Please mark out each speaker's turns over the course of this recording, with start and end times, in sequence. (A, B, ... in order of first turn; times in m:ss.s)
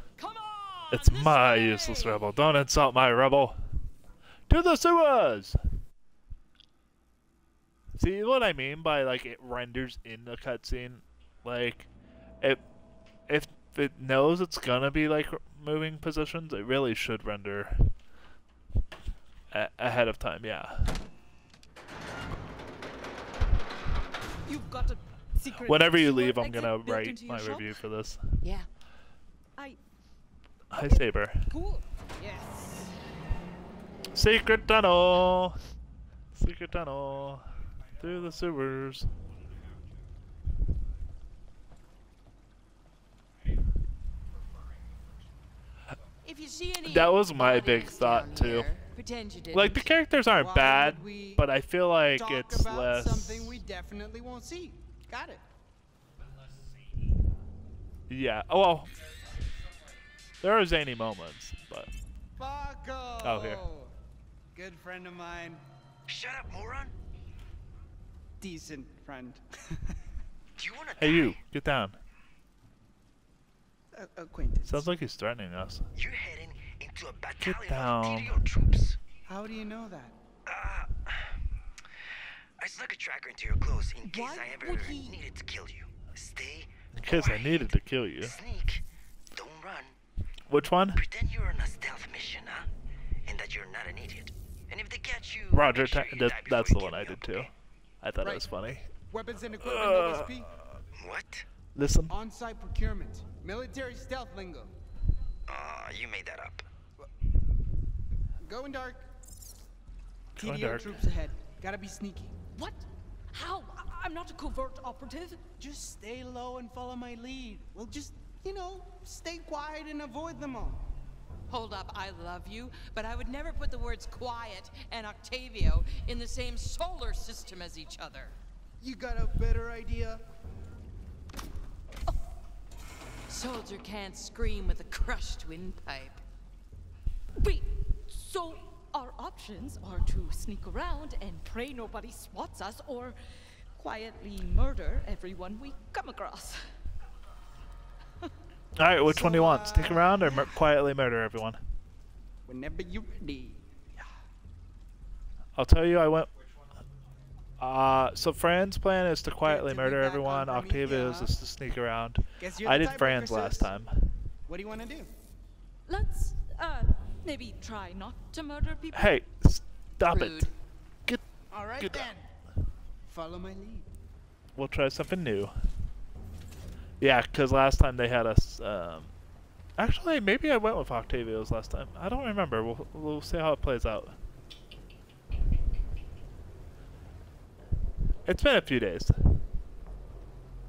0:00.2-0:01.8 A
0:00.9-0:03.6 B
0:01.0-0:01.9 C
0:04.5-0:05.6 B
0:07.9-0:11.9 B
0:13.3-0:17.9 B
0:19.5-0:21.0 B
0:24.4-0:27.8 C
0:25.6-0:28.4 B
0:28.4-0:28.7 C
0:30.7-0:31.5 B
0:30.8-0:32.9 C
0:34.1-0:35.6 B
0:36.3-0:39.1 B
0:46.2-0:49.9 A
0:46.8-0:48.7 B
0:49.5-0:53.6 B
0:50.3-0:51.4 D
0:52.1-0:55.4 D
0:58.1-0:58.9 B
1:00.4-1:01.9 B
1:02.4-1:03.9 D
1:03.2-1:03.6 B
1:04.5-1:05.6 D
1:06.1-1:06.9 E
1:08.4-1:10.0 D
1:10.6-1:11.4 E
1:11.0-1:12.0 B
1:13.9-1:14.8 D
1:14.6-1:15.9 B
1:15.9-1:19.0 E
1:17.4-1:18.4 B
1:19.2-1:20.1 D
1:20.4-1:21.4 E
1:22.6-1:29.9 E
1:24.1-1:25.1 C
1:24.1-1:24.8 D
1:26.9-1:28.4 B
1:30.5-1:31.0 B
1:31.0-1:32.7 E
1:33.2-1:37.5 E
1:35.5-1:37.5 B
1:38.0-1:38.9 B
1:39.1-1:40.5 D
1:39.6-1:40.4 B
1:40.9-1:41.4 E
1:41.7-1:42.1 B
1:42.1-1:44.7 D
1:45.5-1:46.7 E
1:48.4-1:49.1 D
1:50.3-1:51.0 B
1:50.4-1:52.4 D
1:52.5-1:55.4 C
1:55.6-2:00.8 D
2:01.5-2:08.4 A
2:08.8-2:10.2 D
2:13.3-2:16.2 A
2:17.4-2:23.2 C
2:23.8-2:26.6 C
2:28.8-2:31.6 B
2:29.0-2:30.6 D
2:32.4-2:34.1 D
2:35.6-2:36.3 B
2:37.6-2:44.1 B
2:39.4-2:41.3 D
2:42.4-2:43.7 D
2:44.5-2:45.1 D
2:45.9-2:49.2 C
2:48.9-2:50.5 B
2:50.1-2:50.5 A
2:51.5-2:52.3 D
2:51.8-2:52.1 B
2:53.1-2:53.9 D
2:54.5-2:55.5 B
2:57.0-2:59.1 B
2:59.8-3:04.2 B
3:08.2-3:09.4 B